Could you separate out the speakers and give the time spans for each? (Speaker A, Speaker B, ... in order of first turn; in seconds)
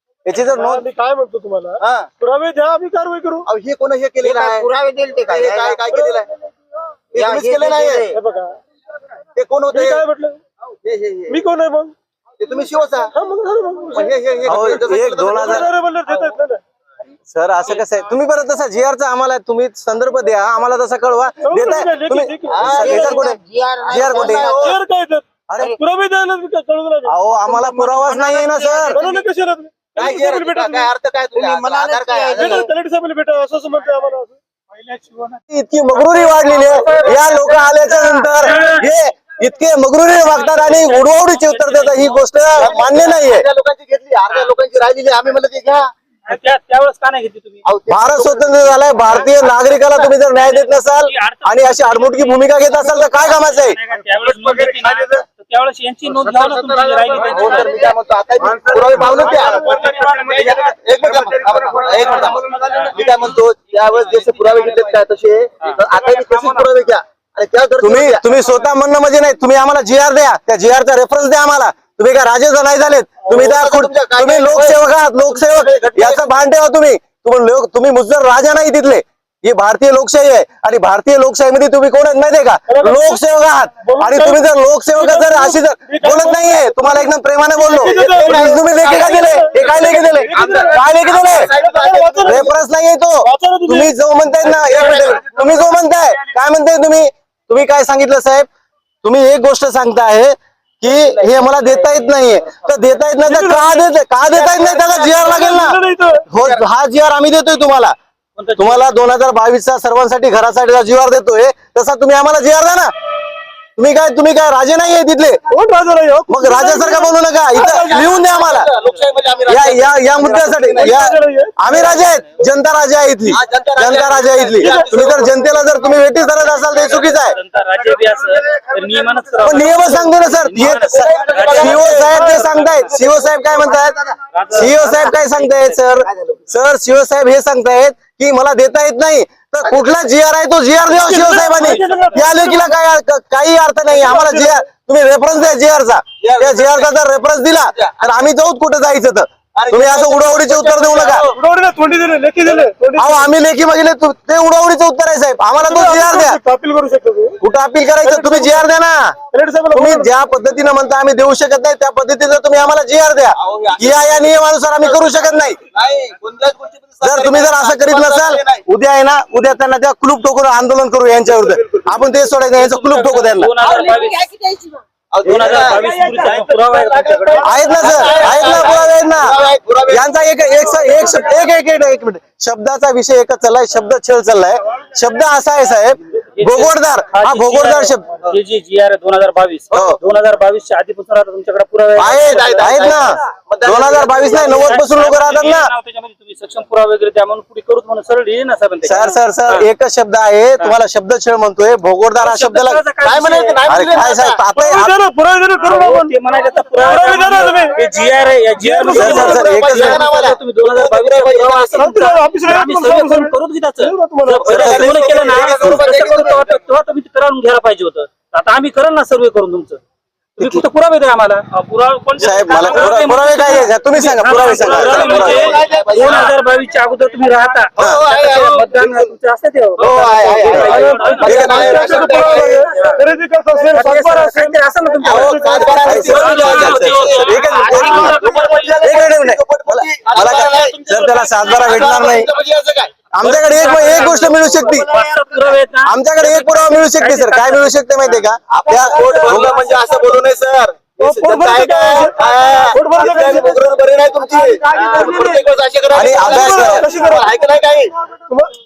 Speaker A: 0.2-0.8, 14.4-15.7, 17.3-24.6, 25.5-25.7, 27.1-29.0, 35.5-43.4, 47.9-53.8, 67.8-91.5, 92.2-98.5, 99.0-105.8, 106.3-107.9, 108.6-112.9, 113.8-115.4, 116.3-118.7, 119.5-127.4, 129.4-133.9, 134.5-151.2, 153.0-156.4, 157.4-159.1, 159.7-165.6, 167.0-173.5, 177.4-179.3, 179.9-188.1, 189.7-190.0, 192.0-195.7, 198.8-202.8, 203.7-204.9, 208.9-210.1, 214.5-215.8, 222.2-225.6, 231.2-231.8, 235.1-238.2, 238.8-242.3, 243.1-244.9, 245.8-249.6, 255.9-256.9
Speaker B: 0.4-3.5, 5.9-6.5, 8.1-8.6, 9.7-10.4, 11.3-11.9, 13.1-16.6, 21.4-23.2, 24.6-27.1, 28.9-30.9, 32.4-35.4, 59.2-59.6, 82.7-83.2, 83.8-92.5, 93.2-93.9, 103.2-103.9, 105.0-106.3, 115.5-118.1, 120.7-121.7, 124.6-125.2, 131.7-132.6, 140.9-142.6, 143.9-144.6, 151.3-153.3, 155.6-157.4, 158.0-158.6, 159.3-160.1, 204.5-206.1, 206.8-207.8, 208.6-209.4, 211.8-214.6, 230.5-236.3, 251.0-253.7, 254.2-255.5, 256.3-257.4, 258.3-258.5
Speaker C: 1.8-2.1, 3.5-4.7, 5.2-6.3, 7.1-8.1, 9.3-10.1, 10.8-11.4, 12.4-13.1, 13.9-15.7, 22.5-23.2, 23.8-24.8, 29.9-32.7, 36.5-37.2, 42.6-45.9, 47.6-49.1, 54.8-55.2, 56.3-68.2, 73.3-76.4, 87.7-92.5, 94.5-95.5, 104.3-105.5, 106.3-106.6, 117.5-121.0, 123.3-125.3, 130.6-134.0, 136.0-136.5, 139.6-139.9, 146.2-146.9, 147.6-148.3, 149.5-151.4, 163.3-164.3, 164.8-168.6, 171.3-172.0, 175.1-181.3, 189.7-189.9, 192.0-194.7, 203.0-204.4, 209.0-211.9, 214.4-216.5, 224.5-226.3, 227.8-229.1, 229.8-232.7, 235.1-240.9, 241.4-243.3, 248.5-257.9
Speaker D: 4.2-5.9, 7.2-8.2, 22.7-24.6, 27.5-29.2, 31.3-32.7, 173.7-174.8, 236.8-238.5, 249.0-249.3
Speaker E: 36.7-37.2, 38.3-38.9, 40.3-42.7, 46.3-47.6, 49.1-57.9, 62.0-62.9, 63.9-64.3, 65.6-66.6, 100.9-102.7, 108.3-108.9, 121.7-122.2, 126.7-131.9, 134.3-135.8, 172.7-174.3, 175.2-178.7, 186.1-192.8, 193.9-199.7, 202.1-203.6, 205.6-219.8, 220.4-233.0, 233.7-238.8, 240.2-241.9, 243.2-247.7, 254.7-255.1